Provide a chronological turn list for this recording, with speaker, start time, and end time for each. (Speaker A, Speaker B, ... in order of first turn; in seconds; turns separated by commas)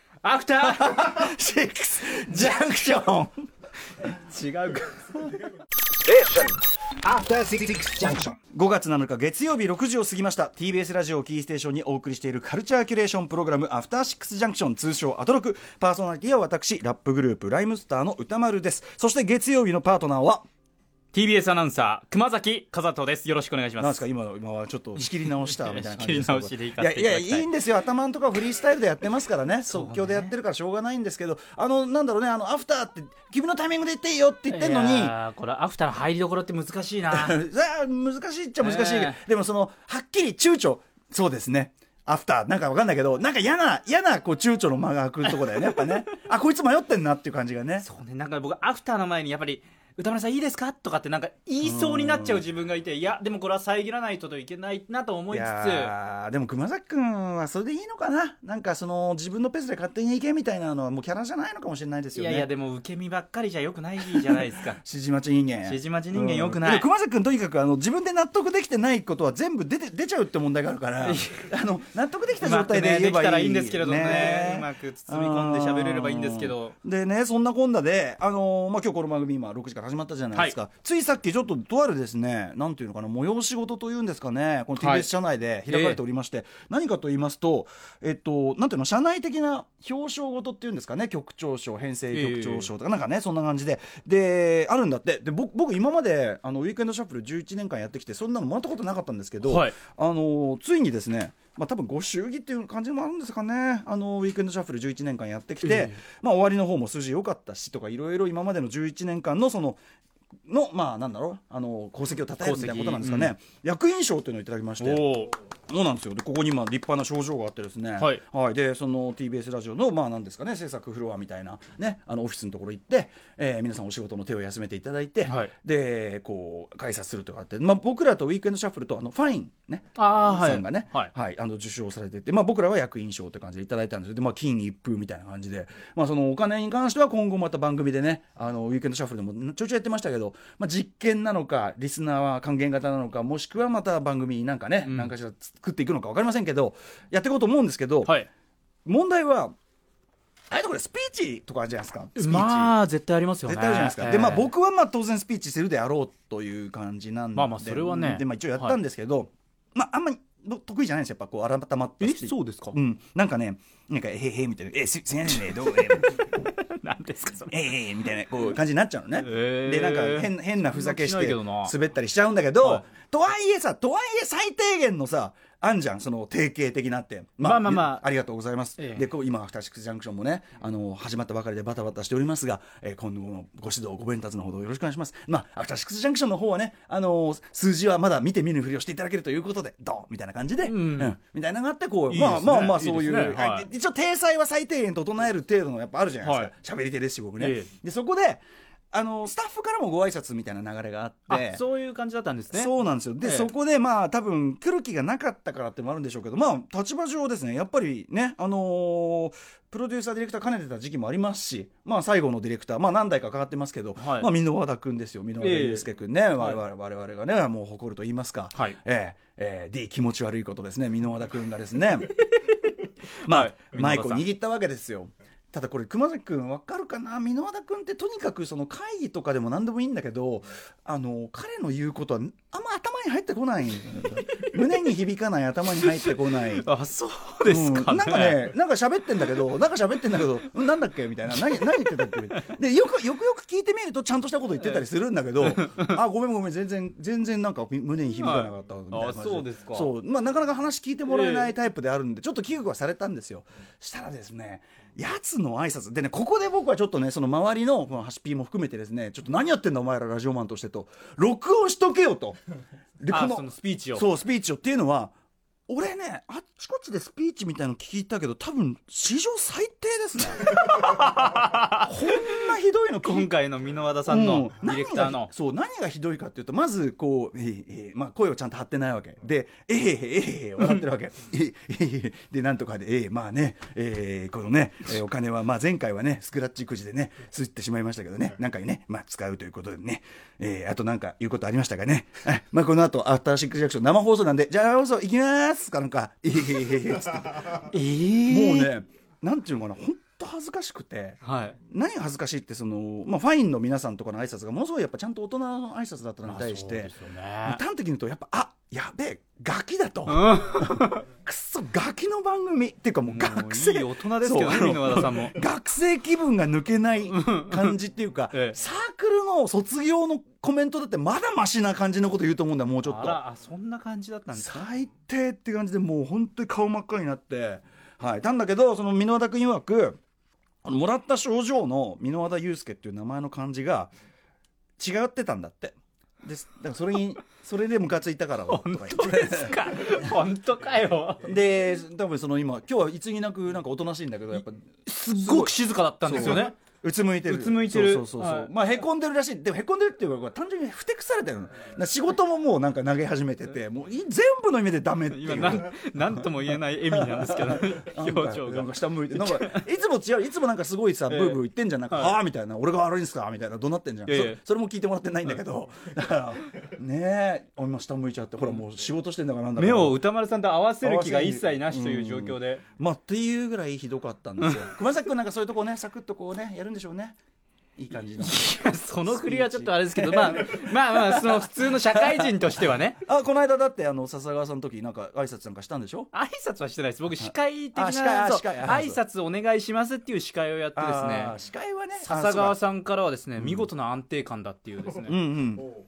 Speaker A: 0.2-1.3, Speaker B: 0.6-3.4, Speaker A: 4.0-5.6, Speaker C: 6.0-8.4, Speaker B: 8.5-20.4, Speaker A: 21.1-24.0, Speaker B: 23.8-35.1, Speaker A: 25.1-27.5, Speaker A: 29.7-30.3, Speaker A: 34.5-37.4, Speaker B: 37.1-47.9, Speaker A: 38.6-39.2, Speaker A: 47.8-55.9, Speaker B: 51.6-52.5, Speaker B: 55.3-62.5, Speaker A: 62.1-64.8, Speaker B: 64.0-109.8, Speaker A: 65.6-66.9, Speaker A: 71.0-71.5, Speaker A: 72.4-76.8, Speaker A: 84.8-85.1, Speaker A: 85.7-86.0, Speaker A: 92.1-92.7, Speaker A: 99.5-99.8, Speaker A: 105.7-105.9, Speaker B: 110.5-148.2, Speaker A: 112.4-113.3, Speaker A: 114.8-115.3, Speaker A: 125.3-125.5, Speaker A: 130.0-131.1, Speaker A: 144.8-145.1, Speaker B: 148.8-149.5, Speaker B: 150.5-152.7, Speaker A: 152.2-154.5, Speaker B: 153.5-166.3, Speaker A: 157.3-158.8, Speaker A: 162.0-162.8, Speaker A: 165.8-167.5, Speaker B: 167.5-201.6, Speaker A: 169.2-171.7, Speaker A: 177.4-178.1, Speaker A: 178.8-179.1, Speaker A: 190.6-191.2, Speaker A: 192.1-193.7, Speaker A: 196.2-196.5, Speaker A: 197.4-197.7, Speaker A: 201.3-203.5, Speaker B: 202.5-222.2, Speaker A: 214.0-214.3, Speaker A: 215.4-215.9, Speaker B: 223.2-236.7, Speaker A: 223.3-224.2, Speaker A: 235.8-238.5, Speaker B: 237.4-262.4, Speaker A: 245.4-246.0, Speaker A: 248.2-249.9, Speaker A: 251.1-251.5, Speaker B: 263.0-265.1, Speaker A: 263.1-264.1, Speaker B: 265.7-271.0, Speaker A: 270.5-272.5, Speaker B: 271.7-273.3, Speaker A: 273.0-275.3, Speaker B: 274.1-297.7, Speaker A: 297.7-298.7, Speaker B: 298.2-323.2, Speaker A: 301.2-301.6, Speaker A: 306.3-307.6, Speaker A: 310.1-311.0, Speaker A: 313.1-315.4, Speaker A: 317.1-317.8, Speaker A: 318.3-318.6, Speaker A: 322.8-324.7, Speaker B: 324.3-330.0, Speaker B: 330.6-333.9, Speaker B: 334.8-339.9, Speaker A: 338.5-341.3, Speaker B: 341.2-370.0, Speaker A: 344.9-346.6, Speaker A: 347.3-348.5, Speaker A: 355.1-359.6, Speaker A: 361.1-361.4, Speaker A: 364.1-364.4, Speaker A: 369.6-372.6, Speaker B: 370.8-377.2, Speaker A: 374.4-374.7, Speaker B: 377.8-386.1, Speaker A: 378.2-383.0, Speaker A: 386.1-391.4, Speaker B: 387.2-389.0, Speaker B: 390.8-392.6, Speaker A: 392.0-395.2, Speaker B: 393.4-393.7, Speaker B: 395.1-395.7